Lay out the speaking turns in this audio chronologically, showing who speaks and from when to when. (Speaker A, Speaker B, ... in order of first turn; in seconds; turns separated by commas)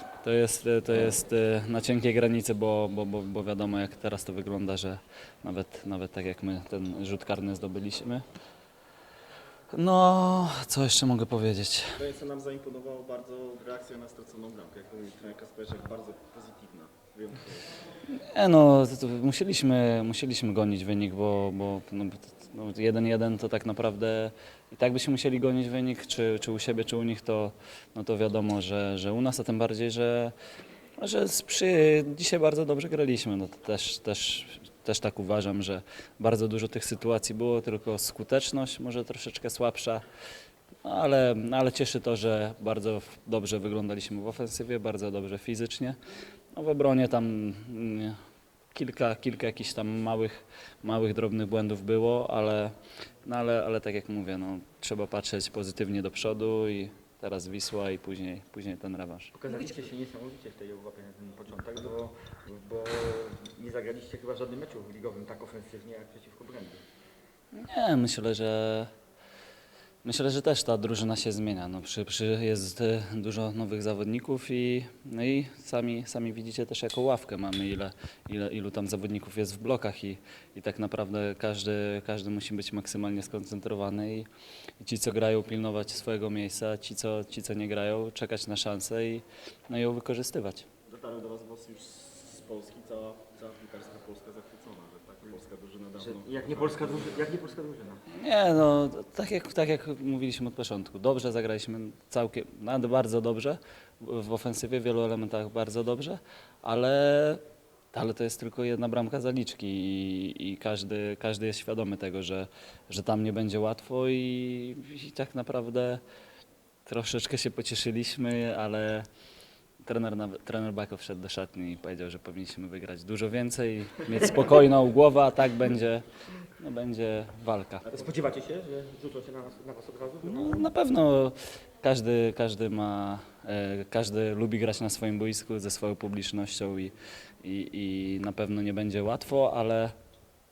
Speaker A: 0.2-8.2, Speaker A: 9.7-12.0, Speaker B: 12.0-17.8, Speaker A: 18.1-30.3, Speaker A: 31.0-40.0, Speaker A: 40.8-46.0, Speaker A: 46.5-48.2, Speaker A: 48.7-59.3, Speaker C: 59.3-66.8, Speaker A: 67.5-68.9, Speaker A: 70.0-84.3, Speaker A: 84.8-90.7, Speaker B: 90.8-97.3, Speaker C: 96.0-98.0, Speaker A: 98.1-107.4, Speaker A: 107.9-116.0, Speaker A: 116.8-119.1, Speaker A: 119.8-127.9, Speaker C: 127.9-130.7, Speaker A: 130.2-139.9